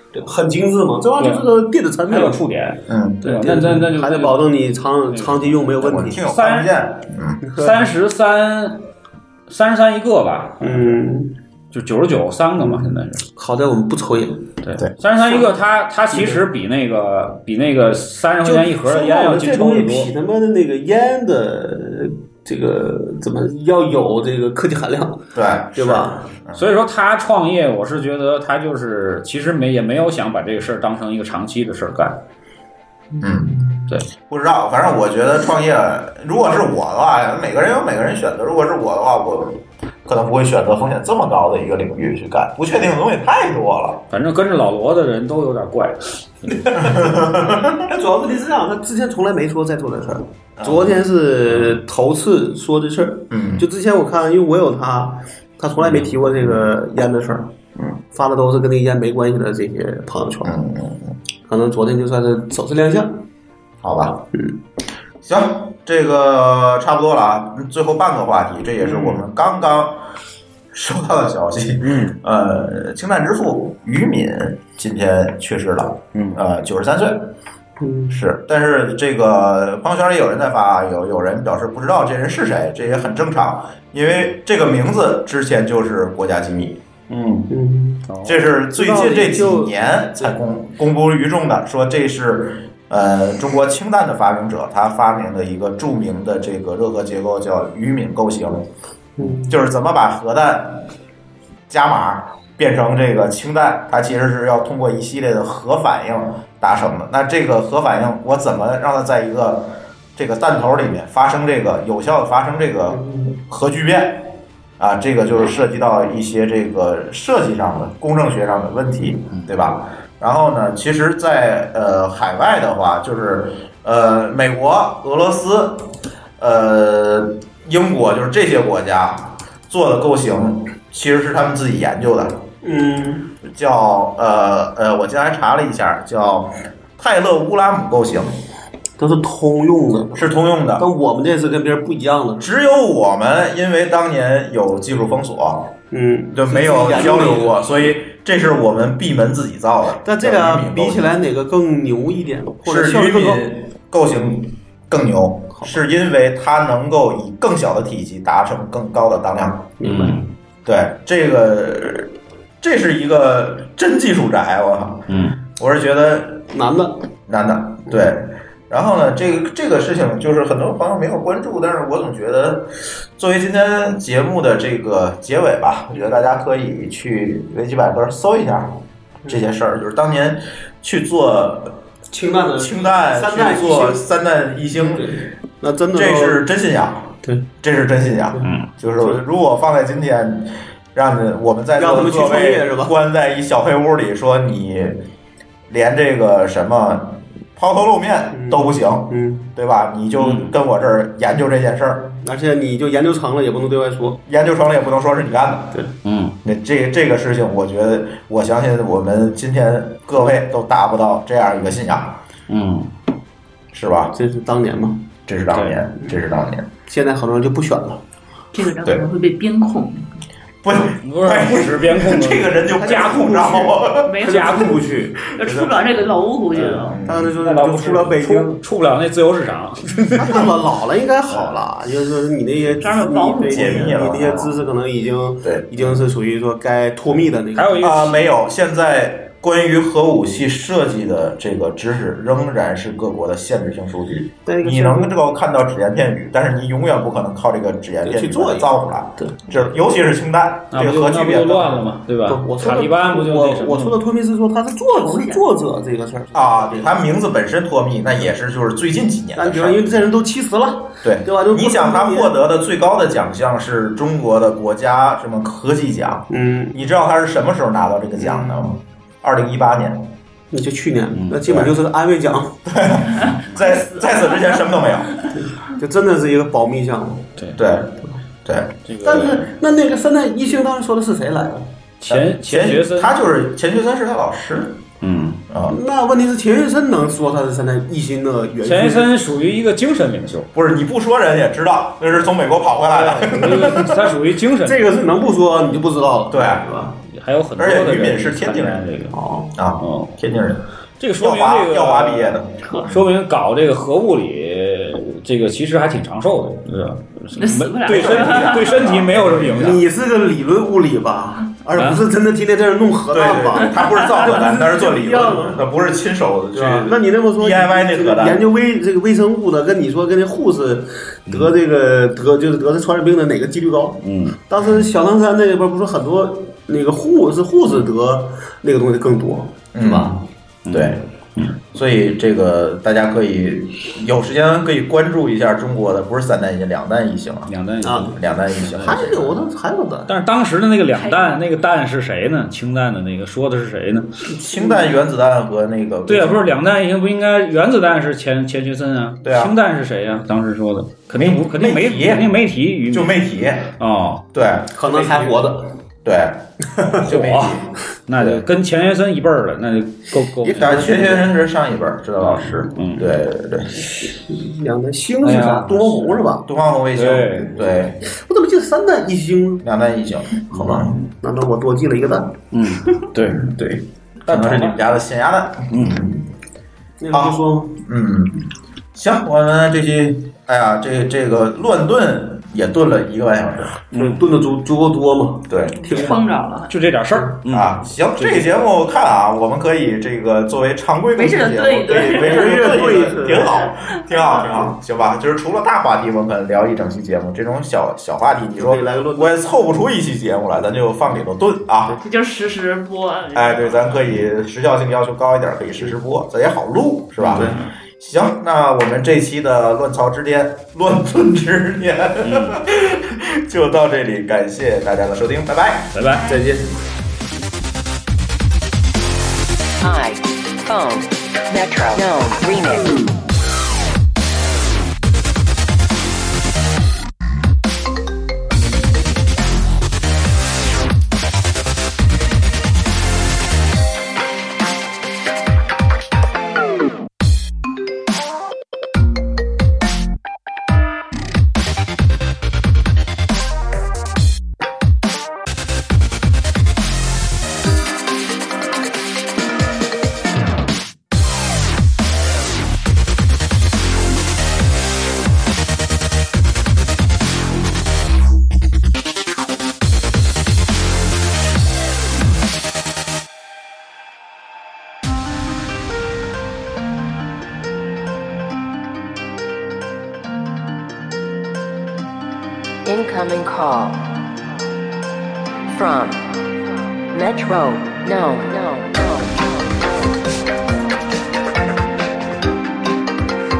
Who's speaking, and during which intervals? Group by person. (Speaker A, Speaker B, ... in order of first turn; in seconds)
Speaker A: 0.1-2.4, 3.2-6.2, 7.4-7.7, 10.6-11.3, 12.6-14.5, 15.2-15.5, 16.1-16.4, 18.4-26.2, 33.6-33.9, 46.6-57.5, 58.1-60.6, 61.5-63.2, 68.8-69.2, 77.8-78.2, 82.8-83.0, 87.5-88.0, 88.7-90.3, 99.2-99.6, 112.9-113.3, 132.6-133.3, 139.0-142.5, 145.9-147.7, 150.0-153.5, 159.8-160.2, 166.5-167.0, 182.1-184.0, 184.7-186.4, 191.8-192.9, 198.3-199.5, 202.2-204.2, 214.1-215.1, 216.8-218.0, 222.8-223.7, 224.2-225.7, 227.0-228.6, 230.0-238.1, 244.4-245.1, 248.0-249.5, 252.2-257.0, 259.3-262.3, 266.3-266.8, 268.2-268.7, 270.5-272.6, 275.4-277.3, 279.0-281.7, 285.7-289.1, 292.8-297.0, 299.1-299.6, 309.6-315.6, 316.5-330.1, 337.8-338.1, 338.7-340.1, 344.3-345.0, 354.7-355.7, 360.4-361.3, 364.1-366.4, 368.1-369.6, 370.5-372.4, 377.0-377.8, 383.9-386.1, 392.1-393.6, 398.6-399.5, 407.3-407.6, 416.2-416.7
Speaker B: 1.2-1.4, 2.0-4.4, 5.1-5.6, 6.2-6.7, 7.6-8.8, 9.5-11.0, 11.7-13.2, 14.6-20.1, 26.5-32.2, 44.1-46.7, 55.8-56.1, 71.8-72.2, 76.1-76.4, 87.1-87.5, 88.1-88.4, 119.3-119.6, 159.8-160.3, 165.1-165.4, 200.2-200.6, 206.0-206.4, 212.5-212.9, 215.5-215.8, 221.0-225.0, 226.5-230.4, 237.5-238.2, 250.7-254.0, 271.1-271.4, 277.4-277.6, 278.9-279.5, 282.0-283.2, 285.0-285.4, 288.6-290.5, 293.3-294.8, 297.1-299.1, 299.8-300.2, 301.0-302.4, 302.9-309.8, 311.7-312.1, 321.3-321.5, 324.0-324.4, 330.6-331.6, 337.5-339.4, 340.1-344.1, 346.1-353.2, 353.8-354.2, 357.1-360.7, 362.2-363.2, 365.2-366.1, 366.9-367.6, 370.7-370.9, 372.5-373.5, 374.2-374.8, 375.7-376.1, 383.9-384.2, 385.9-388.5, 407.2-407.6, 412.2-412.6, 415.9-416.3
Speaker C: 2.9-3.2, 5.8-7.4, 25.3-26.7, 33.2-33.6, 34.2-44.0, 46.8-47.8, 50.6-51.0, 53.3-53.6, 60.4-61.2, 63.8-64.2, 65.2-70.0, 70.7-77.3, 78.1-86.8, 88.2-98.7, 99.2-100.9, 101.7-125.9, 126.4-132.4, 133.4-138.3, 140.1-140.8, 142.4-145.7, 146.3-151.1, 152.6-159.8, 160.6-166.5, 167.3-181.8, 182.6-185.2, 185.9-195.0, 195.7-202.1, 204.3-205.8, 206.4-212.2, 213.7-214.1, 215.3-216.7, 220.6-224.2, 226.8-227.3, 233.5-234.5, 235.4-235.8, 237.8-252.0, 256.3-259.8, 261.0-270.1, 271.5-271.7, 272.6-275.1, 277.6-278.8, 282.1-284.8, 285.5-285.8, 290.5-293.9, 296.3-296.6, 297.6-298.9, 299.5-300.6, 301.2-303.1, 307.9-309.8, 313.1-318.4, 324.6-324.9, 329.7-330.2, 330.7-331.0, 331.7-337.5, 338.1-339.0, 344.4-346.6, 349.2-349.6, 351.1-353.7, 354.3-355.4, 356.0-358.4, 360.6-363.9, 366.4-368.0, 369.6-370.9, 373.2-376.2, 377.1-383.8, 385.5-385.9, 387.5-401.9, 403.3-416.0
Speaker D: 218.5-220.0, 224.0-224.8, 225.3-226.9, 232.8-234.0, 254.9-255.4, 273.2-274.6, 307.3-308.9, 313.8-314.3, 340.9-341.4, 385.7-386.7, 391.1-394.6, 401.9-404.1, 416.2-416.4
Speaker E: 419.8-423.0, 472.8-474.2, 475.7-476.4, 477.1-479.7